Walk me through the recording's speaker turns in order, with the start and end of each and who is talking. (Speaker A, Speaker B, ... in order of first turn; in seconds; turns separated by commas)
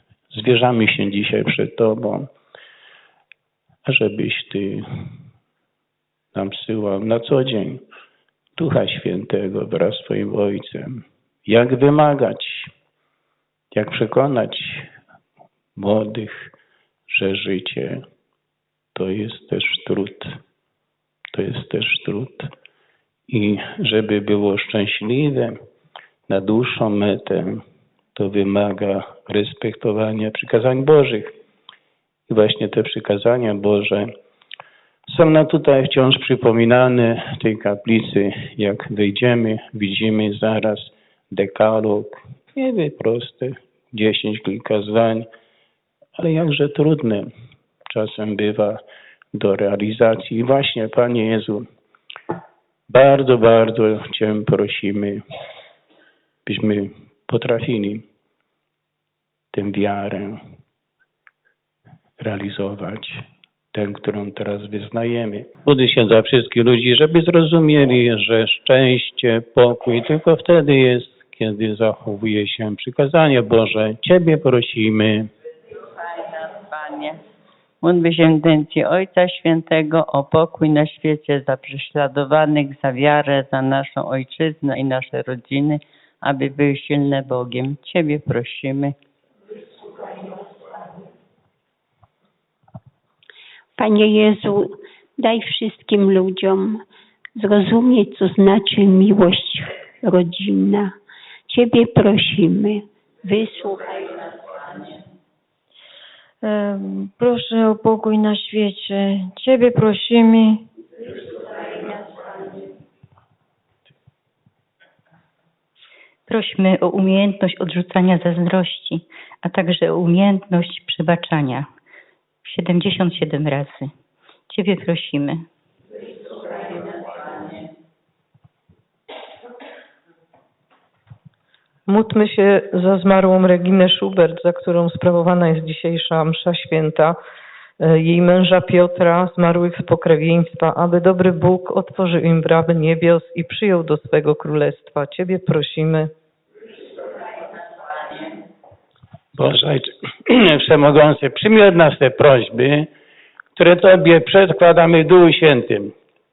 Speaker A: 0.3-2.3, Speaker A: 3.8-4.8, Speaker A: 6.3-7.8, Speaker A: 8.6-12.7, Speaker A: 13.7-14.9, Speaker A: 15.8-16.5, Speaker A: 17.1-18.0, Speaker A: 18.9-20.4, Speaker A: 21.3-22.5, Speaker A: 23.3-25.6, Speaker A: 26.3-27.6, Speaker A: 28.1-31.3, Speaker A: 32.3-34.1, Speaker A: 35.1-45.3, Speaker A: 46.2-47.3, Speaker A: 47.9-48.8, Speaker A: 49.3-51.7, Speaker A: 52.9-55.2, Speaker A: 56.5-58.0, Speaker A: 59.5-60.4, Speaker A: 62.2-63.2, Speaker A: 63.7-75.3, Speaker B: 76.1-77.2, Speaker B: 77.8-88.9, Speaker C: 93.8-96.8, Speaker C: 97.4-100.9, Speaker C: 101.5-104.1, Speaker D: 106.4-110.6, Speaker E: 116.3-121.7, Speaker E: 122.4-123.9, Speaker E: 124.5-125.5, Speaker F: 131.9-137.2, Speaker F: 137.8-146.1, Speaker A: 149.3-152.9, Speaker A: 153.6-155.9